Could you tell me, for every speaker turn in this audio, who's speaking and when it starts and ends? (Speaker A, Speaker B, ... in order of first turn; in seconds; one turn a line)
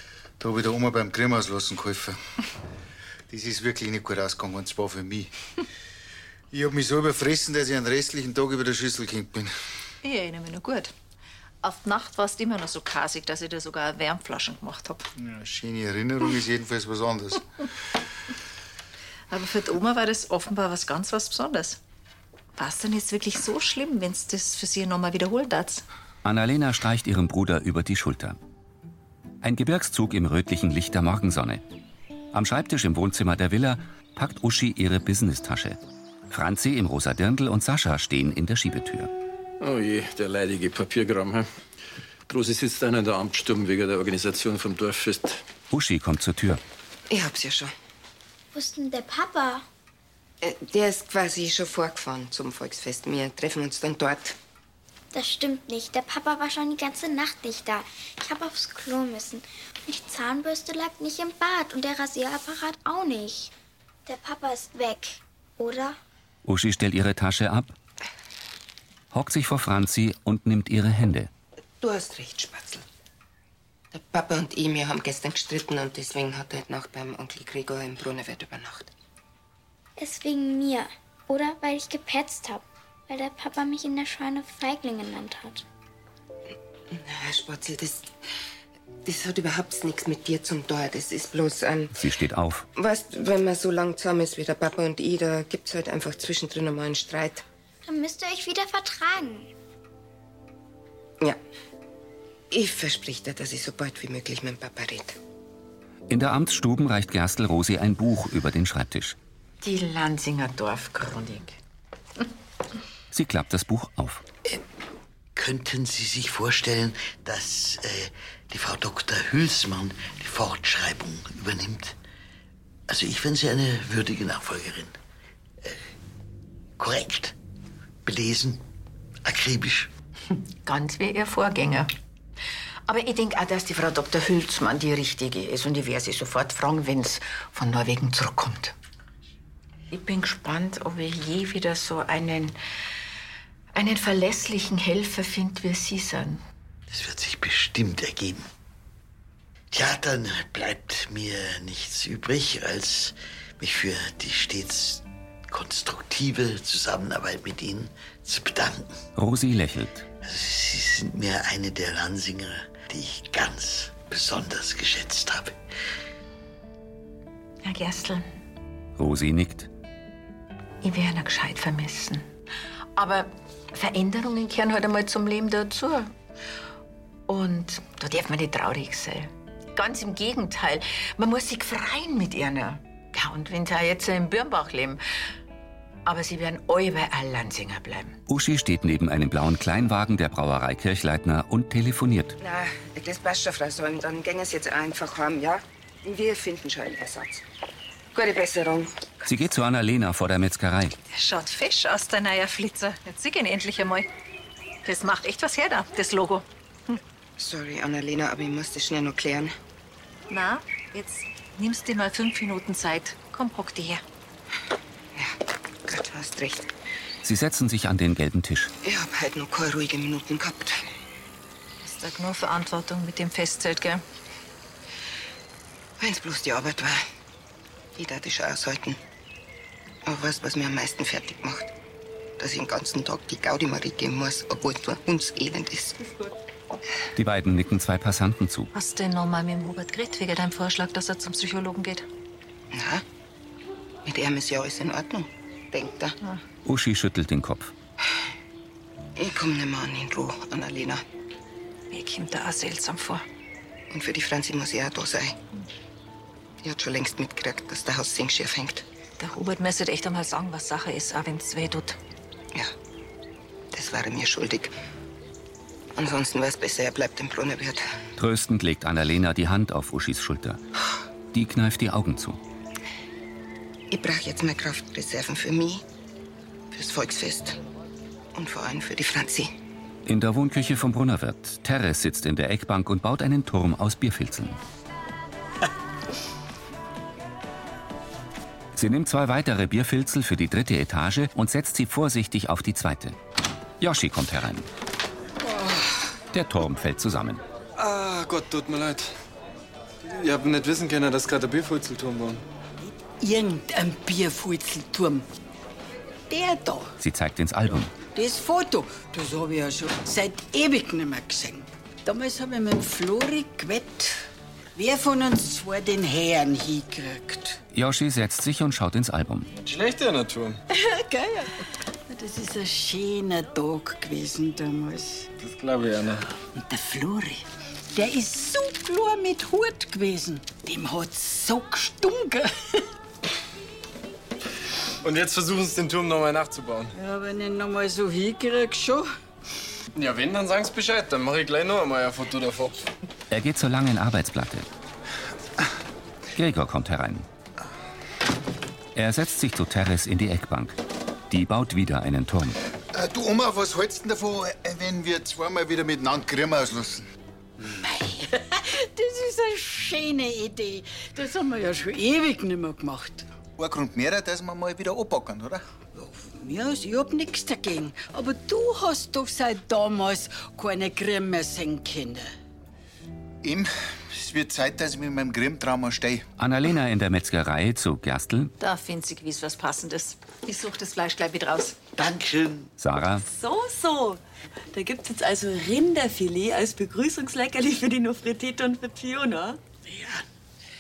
Speaker A: 0.4-2.2
Speaker A: 3.3-5.3
Speaker A: 6.5-9.5
Speaker B: 10.0-10.9
Speaker B: 11.6-15.1
Speaker A: 15.2-17.5
Speaker B: 19.3-21.8
Speaker B: 22.6-25.9
Speaker C: 26.2-28.4
Speaker C: 29.4-31.6
Speaker C: 32.3-35.8
Speaker C: 36.3-39.1
Speaker D: 39.6-41.5
Speaker D: 42.3-45.4
Speaker C: 45.7-46.6
Speaker E: 47.1-47.7
Speaker F: 48.5-49.6
Speaker E: 50.4-54.4
Speaker F: 55.1-63.5
Speaker F: 64.1-66.0
Speaker C: 66.5-67.8
Speaker C: 69.1-71.3
Speaker E: 71.8-72.8
Speaker E: 73.9-78.9
Speaker F: 80.0-85.7
Speaker E: 86.9-88.1
Speaker E: 89.0-92.0
Speaker C: 91.9-92.7
Speaker E: 92.8-97.4
Speaker F: 97.9-99.5
Speaker E: 102.5-105.2
Speaker C: 106.1-109.2
Speaker G: 109.6-111.6
Speaker C: 113.1-114.2
Speaker H: 115.3-122.0
Speaker H: 122.9-125.0
Speaker H: 125.6-125.9
Speaker H: 126.8-127.3
Speaker H: 128.1-128.6
Speaker H: 129.2-129.9
Speaker G: 130.6-131.9
Speaker G: 132.9-138.8
Speaker G: 139.9-142.6
Speaker G: 143.7-146.4
Speaker H: 146.9-148.5
Speaker H: 149.7-159.0
Speaker C: 159.2-160.1
Speaker H: 160.2-165.6
Speaker G: 167.6-168.3
Speaker C: 169.0-169.7
Speaker G: 170.8-172.3
Speaker G: 172.9-176.1
Speaker G: 177.3-185.0
Speaker G: 186.1-188.2
Speaker C: 188.3-192.4
Speaker E: 192.4-197.4
Speaker E: 198.1-199.2
Speaker C: 199.2-200.9
Speaker B: 201.1-204.1
Speaker B: 204.8-207.0
Speaker E: 207.4-209.5
Speaker B: 210.3-214.0
Speaker E: 215.9-216.7
Speaker C: 217.2-218.7
Speaker E: 218.8-220.8
Speaker B: 221.8-224.0
Speaker E: 226.0-227.1
Speaker E: 228.0-229.0
Speaker E: 230.1-231.7
Speaker E: 232.4-236.0
Speaker C: 237.2-238.7
Speaker B: 238.7-242.1
Speaker E: 242.7-243.0
Speaker E: 244.1-246.2
Speaker C: 246.7-247.7
Speaker E: 249.2-251.0
Speaker B: 251.9-253.2
Speaker E: 253.9-255.4
Speaker E: 256.6-258.9
Speaker B: 259.2-262.0
Speaker E: 263.7-264.7
Speaker E: 266.0-267.9
Speaker C: 268.2-270.6
Speaker C: 271.3-272.4
Speaker E: 273.9-275.8
Speaker E: 276.7-277.6
Speaker E: 278.4-279.5
Speaker C: 280.1-284.6
Speaker C: 288.8-293.2
Speaker C: 293.8-294.7
Speaker C: 296.3-297.4
Speaker I: 297.8-299.1
Speaker I: 300.1-302.4
Speaker J: 303.1-305.3
Speaker J: 306.3-306.9
Speaker C: 307.0-307.9
Speaker J: 308.1-314.2
Speaker J: 314.8-317.6
Speaker C: 317.7-319.5
Speaker I: 319.5-320.6
Speaker J: 320.7-325.3
Speaker I: 325.4-326.3
Speaker J: 326.6-332.8
Speaker I: 335.0-336.9
Speaker J: 336.9-339.1
Speaker I: 339.9-342.9
Speaker C: 343.3-344.7
Speaker C: 346.4-347.3
Speaker C: 348.9-350.8
Speaker C: 351.3-352.6
Speaker A: 352.9-357.1
Speaker J: 357.6-363.3
Speaker A: 363.6-365.6
Speaker J: 366.0-372.3
Speaker A: 373.4-376.2
Speaker C: 376.4-378.5
Speaker B: 378.6-381.8
Speaker H: 382.0-382.7
Speaker C: 382.8-383.2
Speaker K: 383.2-384.2
Speaker K: 384.7-389.6
Speaker H: 389.9-390.3